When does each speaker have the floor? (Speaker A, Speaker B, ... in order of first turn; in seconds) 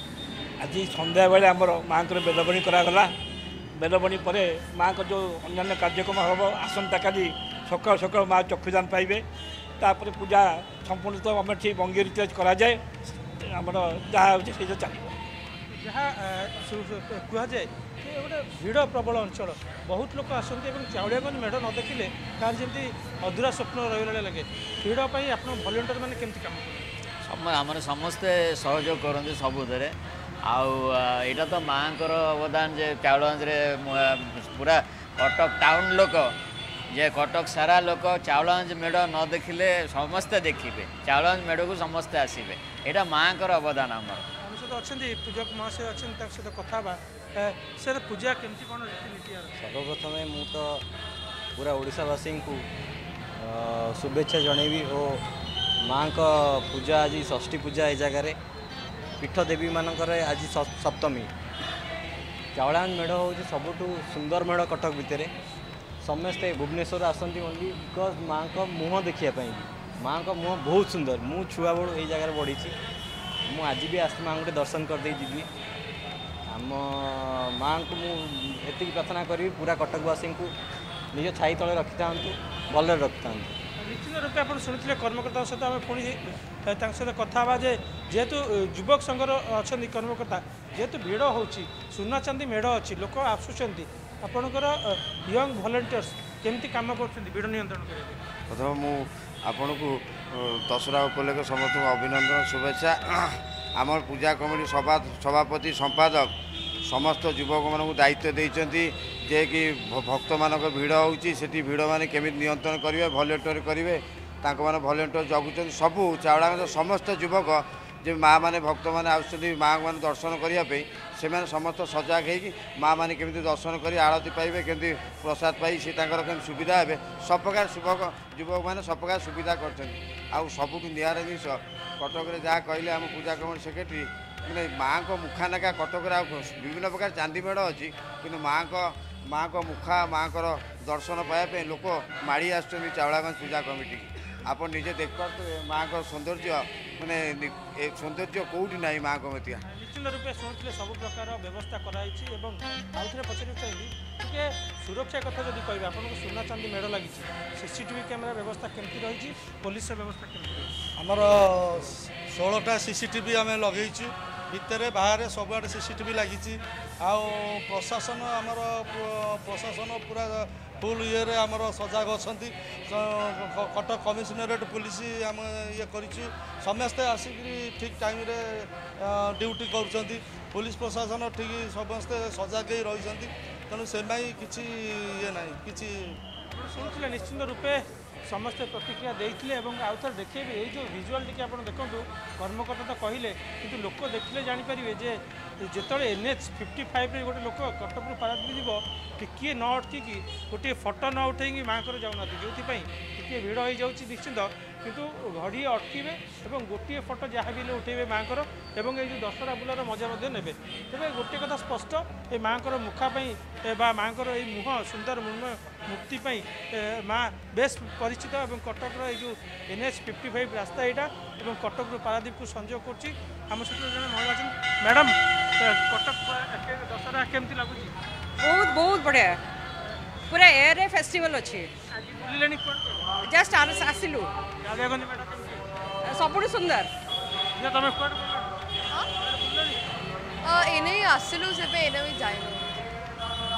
Speaker A: 0.6-3.1, 3.8-9.2, 9.8-12.8, 13.4-15.2
Speaker B: 15.7-26.9, 44.4-49.5, 83.8-98.2, 149.7-160.7, 186.5-227.9, 231.9-233.2, 234.6-235.6, 237.5-240.0
Speaker C: 27.2-29.9, 30.4-36.3, 36.9-44.2
Speaker D: 49.6-50.8, 51.5-52.6, 53.4-55.2, 55.8-58.3, 59.2-61.3, 62.5-65.3, 66.0-72.7, 73.5-75.5, 76.5-80.5, 81.1-83.5
Speaker E: 98.5-106.3, 106.8-149.6
Speaker F: 161.0-186.2
Speaker G: 228.4-229.4, 230.3-231.7, 233.2-234.3, 236.0-236.9
Speaker H: 240.4-242.8